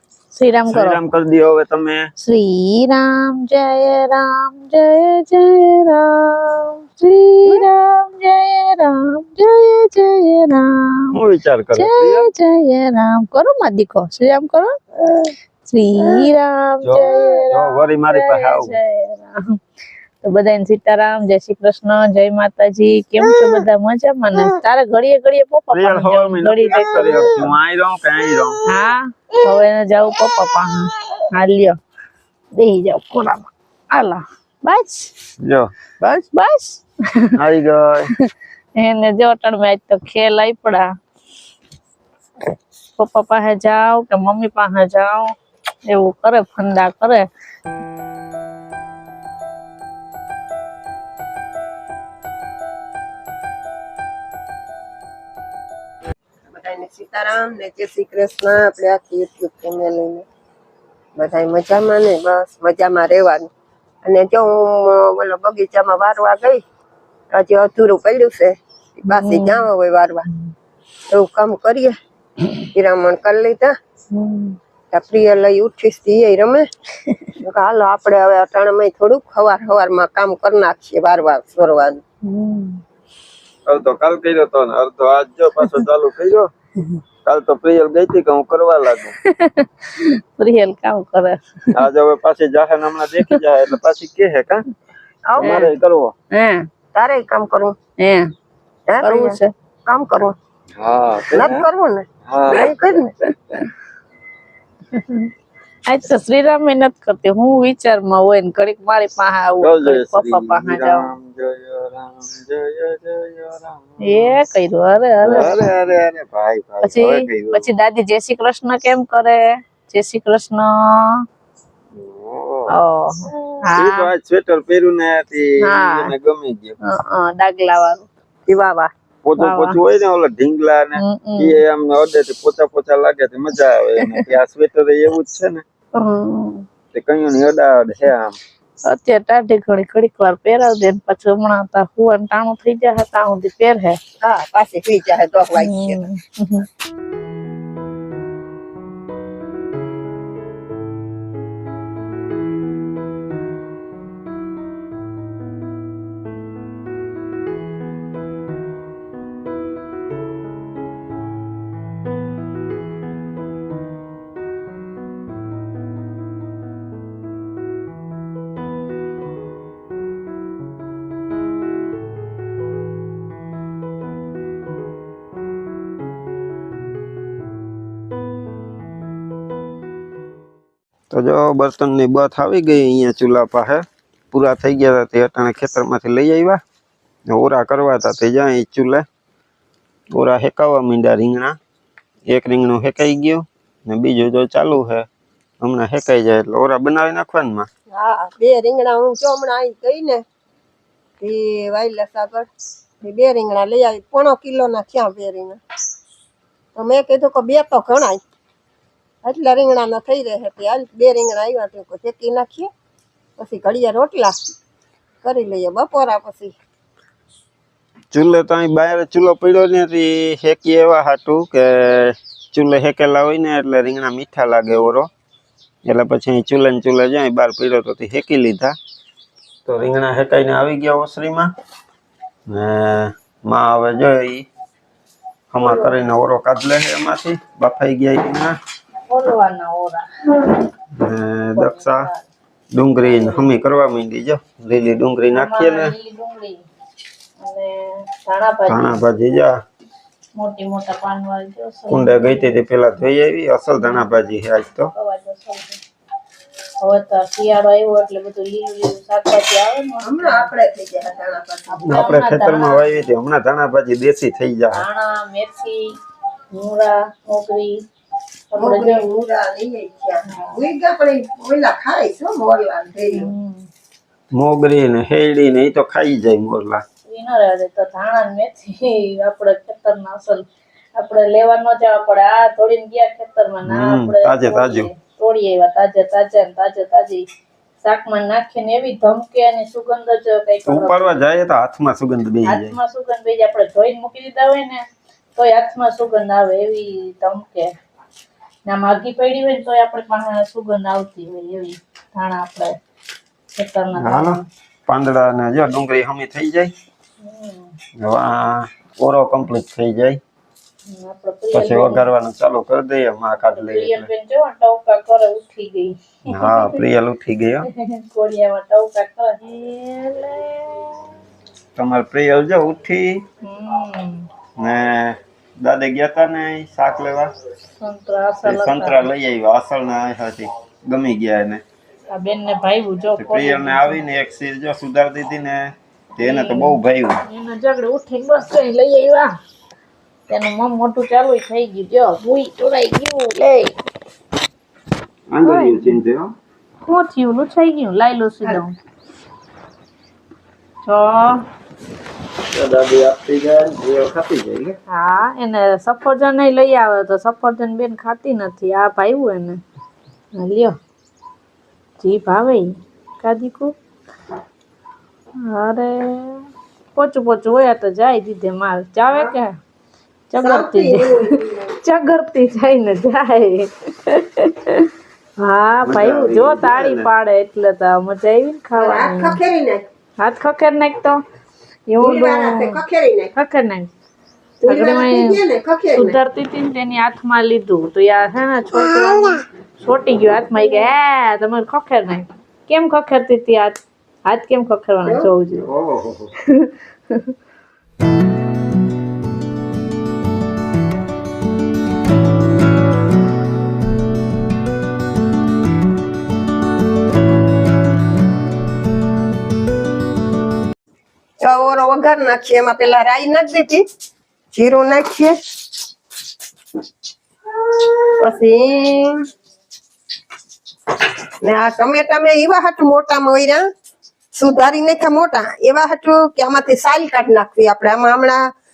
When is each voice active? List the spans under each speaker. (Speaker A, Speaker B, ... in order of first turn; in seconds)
Speaker A: 0.3-1.0, 2.2-11.1, 11.8-19.6, 20.2-27.4, 28.7-31.8, 32.5-35.1, 36.0-37.3, 38.2-40.9, 43.0-45.3, 45.9-47.3, 69.1-69.7, 74.1-74.6, 77.0-77.3, 82.2-82.8, 89.2-91.8, 95.4-95.7, 96.3-96.7, 98.0-98.3, 99.0-99.5, 103.2-103.7, 104.9-105.3, 105.9-111.1, 114.0-115.7, 116.8-121.2, 122.7-124.1, 125.6-126.1, 126.8-128.1, 129.4-129.8, 131.0-131.6, 136.0-136.7, 138.9-144.0, 145.6-146.7, 235.6-236.0, 239.1-240.5, 241.6-242.3, 243.0-243.5, 245.3-246.6, 247.4-249.0, 250.4-252.5, 254.9-255.8, 256.8-260.5, 261.7-263.0, 264.7-265.9, 266.6-267.8, 268.5-269.0, 270.3-270.6, 273.1-273.7, 277.1-287.3, 287.8-291.2, 292.4-294.9, 295.4-297.7, 298.7-302.8, 303.6-304.4, 307.2-307.7, 310.9-312.1, 313.4-316.8, 317.6-321.1, 323.4-324.3, 327.8-329.1, 332.1-334.0, 336.2-339.3, 340.3-343.7, 345.4-345.8, 346.9-348.7, 350.9-351.4, 354.9-359.6, 360.4-360.8, 362.0-363.8, 365.4-369.6, 370.3-371.2, 371.8-379.4, 380.2-381.2, 381.9-382.8, 383.3-383.9, 384.7-385.4, 385.9-395.7, 396.4-397.4
Speaker B: 0.7-2.1, 11.1-12.3, 16.8-18.8, 25.7-28.6, 35.4-35.9, 37.4-38.1, 83.7-86.5, 87.2-89.2, 91.7-94.6, 95.4-96.1, 100.8-101.7, 102.3-102.8, 109.6-114.4, 115.2-117.7, 121.9-122.7, 123.8-126.8, 129.2-135.6, 136.9-138.4, 181.1-186.6, 187.3-189.1, 190.1-191.6, 192.3-195.1, 195.6-197.7, 218.1-225.1, 225.9-228.8, 229.7-231.5, 232.5-234.5, 235.5-238.6, 241.0-242.1, 242.7-245.9, 248.7-249.6, 251.9-254.9, 261.9-264.8, 274.3-276.8, 283.6-284.9, 290.7-292.8, 304.0-306.7, 308.0-310.2, 311.5-314.1, 316.3-317.7, 321.8-323.2, 324.6-327.3, 328.4-331.6, 333.2-337.2, 345.3-346.3, 352.5-354.8, 375.9-377.1, 395.6-396.3
Speaker C: 56.5-60.3, 61.2-63.5, 64.0-66.6, 67.3-70.3, 71.1-72.0, 72.7-73.8, 74.9-76.7, 77.4-82.0, 95.3-95.7, 97.0-97.8, 98.9-100.4, 101.3-103.1, 128.5-128.9, 144.2-146.1, 197.9-200.2, 201.2-202.5, 203.0-205.6, 206.8-208.2, 209.2-212.7, 213.4-214.4, 215.2-216.6, 260.0-261.9, 268.6-273.3, 370.4-371.7, 378.8-379.8, 382.0-383.3, 384.6-386.2, 411.4-413.8, 414.5-415.4, 417.6-419.2, 421.4-423.6, 424.4-428.4